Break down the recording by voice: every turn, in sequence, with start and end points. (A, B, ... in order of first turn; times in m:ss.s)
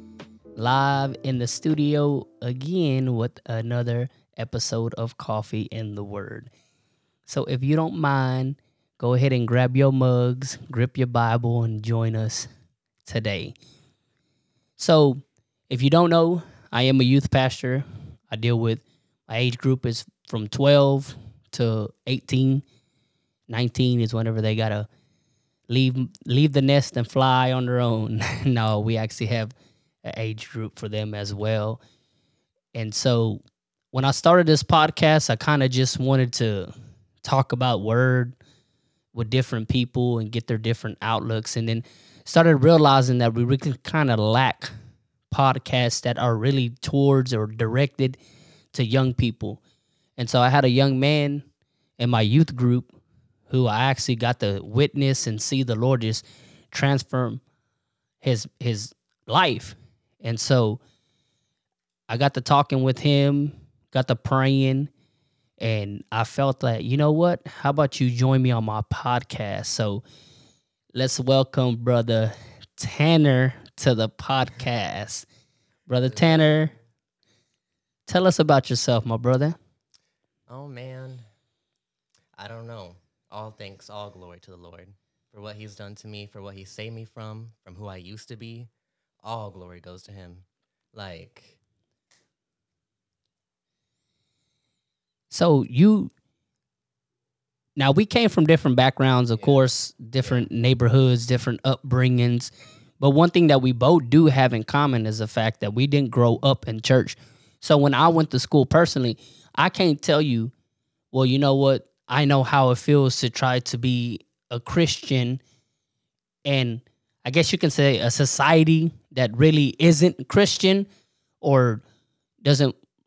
0:00.6-0:06.5 A
0:07.3-0:12.5 A
0:13.0-0:13.6 A
0:14.8-0:22.6 A
0:23.5-0:24.9 A
0:25.7-0:31.8 A
0:32.7-0:36.7 A
0:37.2-0:38.4 A
0:39.2-0:44.7 A
0:45.3-0:48.2 A
0:48.7-0:49.6 A
0:50.2-0:51.4 A
0:52.0-0:52.9 A
0:53.5-0:57.4 A
0:58.2-1:00.8 A
1:02.1-1:04.9 A
1:05.6-1:10.0 A
1:10.9-1:15.3 A
1:15.9-1:16.7 A
1:16.0-1:16.8 B
1:18.1-1:19.6 A
1:20.5-1:21.3 B
1:22.4-1:28.7 B
1:29.2-1:31.6 B
1:35.3-1:36.1 A
1:37.8-1:50.5 A
1:40.2-1:40.5 B
1:51.1-1:55.4 A
1:56.4-2:00.9 A
2:01.4-2:01.8 A
2:02.4-2:02.8 A